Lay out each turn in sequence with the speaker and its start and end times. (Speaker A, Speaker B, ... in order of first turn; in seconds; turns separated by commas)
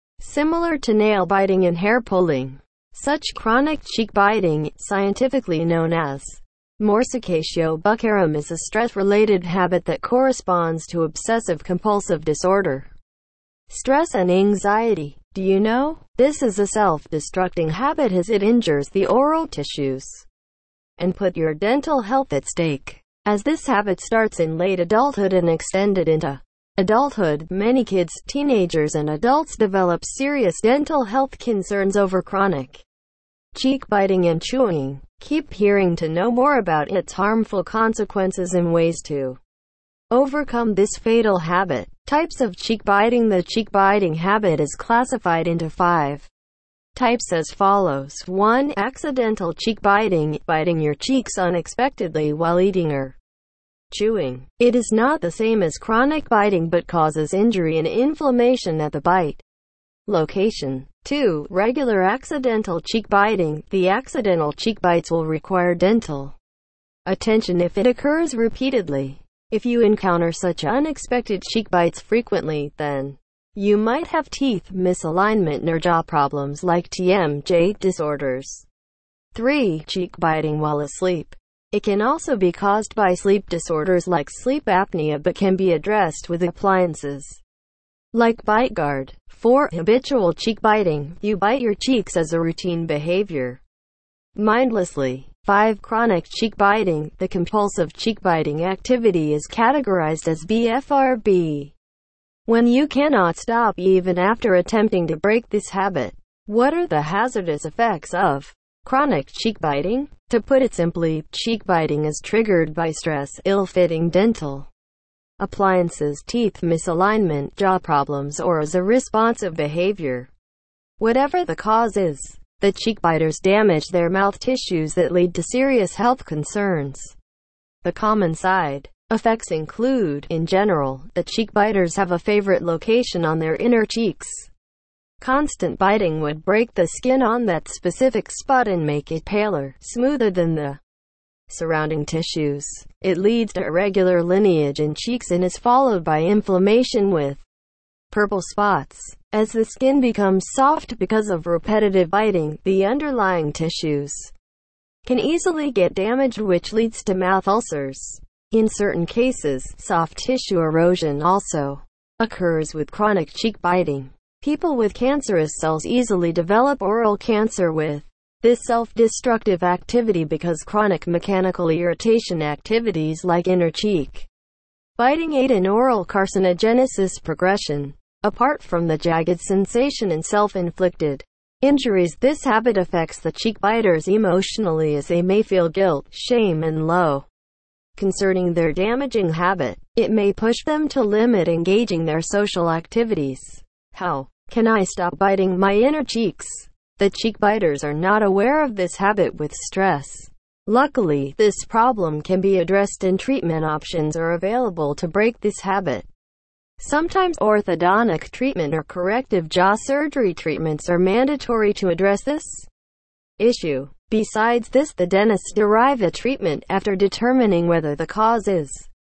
Speaker A: 0.2-12.9, Speaker A: 13.7-20.3, Speaker A: 21.0-32.8, Speaker A: 33.5-39.4, Speaker A: 40.1-46.3, Speaker A: 47.0-53.2, Speaker A: 53.9-59.4, Speaker A: 60.1-66.4, Speaker A: 67.1-78.7, Speaker A: 79.3-87.4, Speaker A: 88.1-93.6, Speaker A: 94.3-101.7, Speaker A: 102.5-114.7, Speaker A: 115.4-120.3, Speaker A: 121.0-127.2, Speaker A: 127.8-134.5, Speaker A: 135.2-140.8, Speaker A: 141.5-147.4, Speaker A: 148.1-154.3, Speaker A: 155.1-174.3, Speaker A: 175.0-187.3, Speaker A: 188.0-206.1, Speaker A: 206.8-212.7, Speaker A: 213.4-218.9